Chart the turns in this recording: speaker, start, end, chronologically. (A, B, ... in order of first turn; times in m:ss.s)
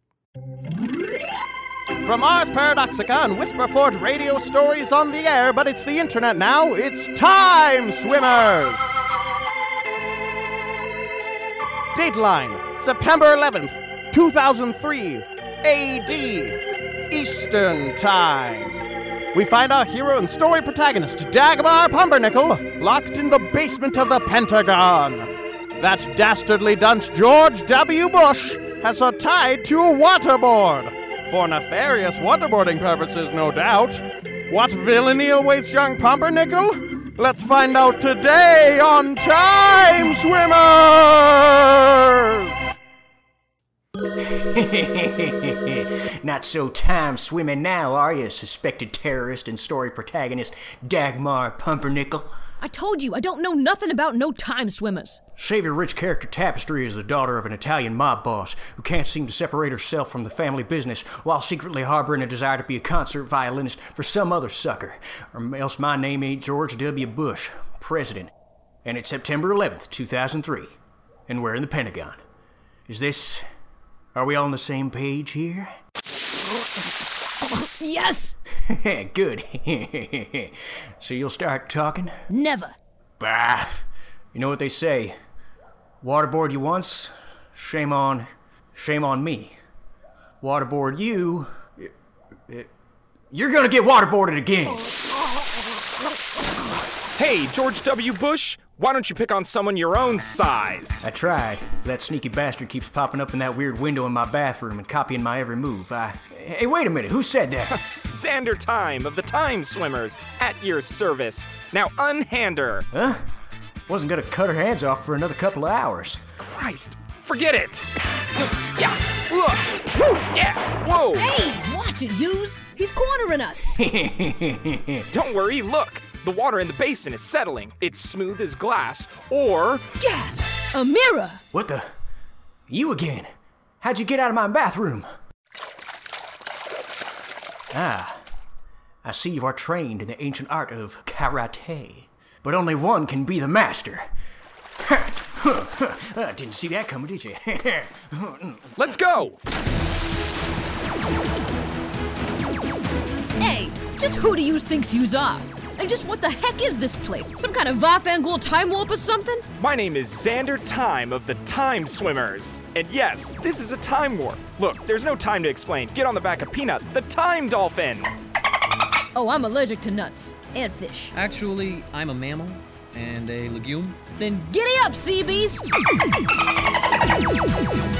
0:02.0-0:08.9 A
0:11.9-0:16.6 A
0:17.1-0:18.7 A
0:19.3-0:42.7 A
0:44.3-0:52.3 B
0:52.6-0:55.2 C
0:55.4-1:08.3 B
1:08.8-1:10.7 B
1:11.3-1:12.2 B
1:12.9-1:13.4 B
1:14.1-1:15.7 B
1:17.4-1:18.4 C
1:18.7-1:22.1 B
1:22.3-1:22.8 C
1:23.2-1:23.7 B
1:24.3-1:25.1 B
1:26.0-1:29.5 B
1:30.4-1:31.9 B
1:33.3-1:34.9 B
1:37.2-1:41.0 D
1:41.0-1:47.8 B
1:47.7-1:52.9 D
1:52.9-1:53.2 B
1:53.9-1:56.2 B
1:56.4-2:01.3 D
2:01.2-2:03.8 C
2:03.8-2:05.0 B
2:05.1-2:09.8 D
2:10.0-2:11.4 C
2:11.5-2:11.8 B
2:12.7-2:13.3 B
2:13.8-2:15.0 B
2:17.7-2:18.2 B
2:19.0-2:24.0 B
2:24.8-2:28.9 B
2:28.8-2:29.4 D
2:33.4-2:39.4 C
2:39.6-2:48.1 D
2:49.1-2:51.1 C
2:51.1-2:54.0 E
2:54.2-2:55.7 C